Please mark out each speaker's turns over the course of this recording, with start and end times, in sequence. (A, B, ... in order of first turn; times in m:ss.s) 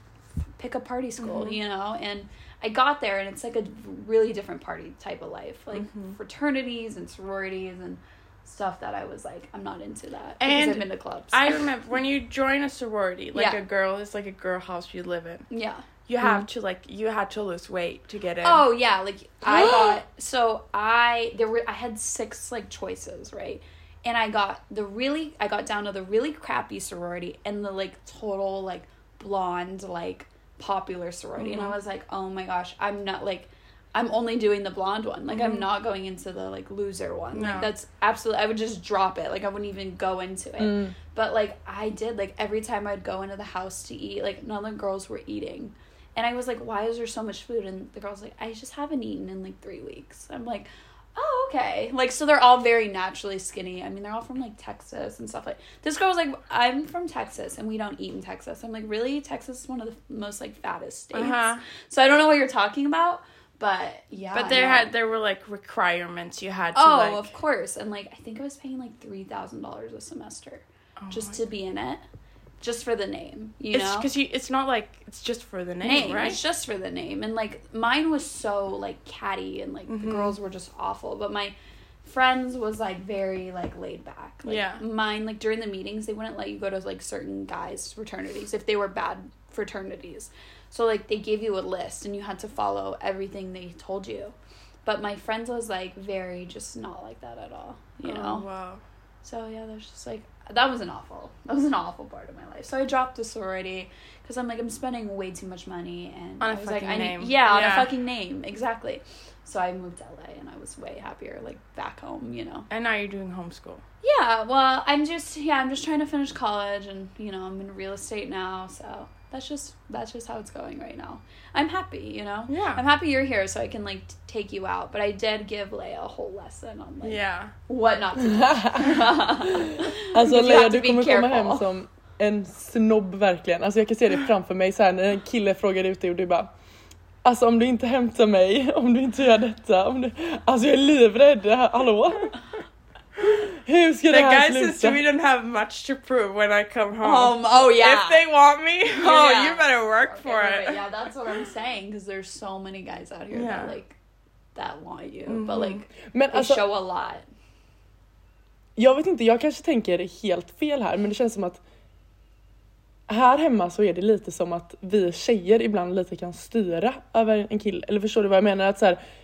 0:00.6-0:11.7 A
0:01.2-0:01.6 B
0:05.7-0:06.2 B
0:10.4-0:15.5 B
0:13.3-0:13.6 A
0:15.5-0:15.8 A
0:16.1-0:18.6 B
0:18.4-1:04.9 A
0:19.5-0:19.9 B
0:31.4-0:31.8 B
0:35.3-0:35.7 B
0:37.3-0:37.7 B
0:40.6-0:40.9 C
1:01.1-1:01.6 B
1:04.3-1:07.3 B
1:06.8-1:12.0 A
1:11.0-1:11.4 B
1:12.6-1:14.1 A
1:13.7-1:16.4 B
1:15.8-1:38.5 A
1:19.9-1:20.3 B
1:24.4-1:24.8 B
1:38.0-1:38.8 B
1:39.2-1:52.7 A
1:46.4-1:47.9 B
1:52.7-1:53.8 B
1:54.0-2:11.7 A
2:02.5-2:02.8 B
2:07.0-2:07.5 B
2:08.4-2:09.1 C
2:10.1-2:16.5 C
2:17.2-2:22.3 C
2:23.3-2:25.0 C
2:24.1-2:30.9 B
2:27.0-2:28.2 A
2:28.9-2:34.0 A
2:33.3-2:33.8 B
2:34.6-2:37.2 A
2:35.3-2:35.8 B
2:36.1-2:36.6 C
2:38.8-2:41.6 C
2:43.1-2:49.0 C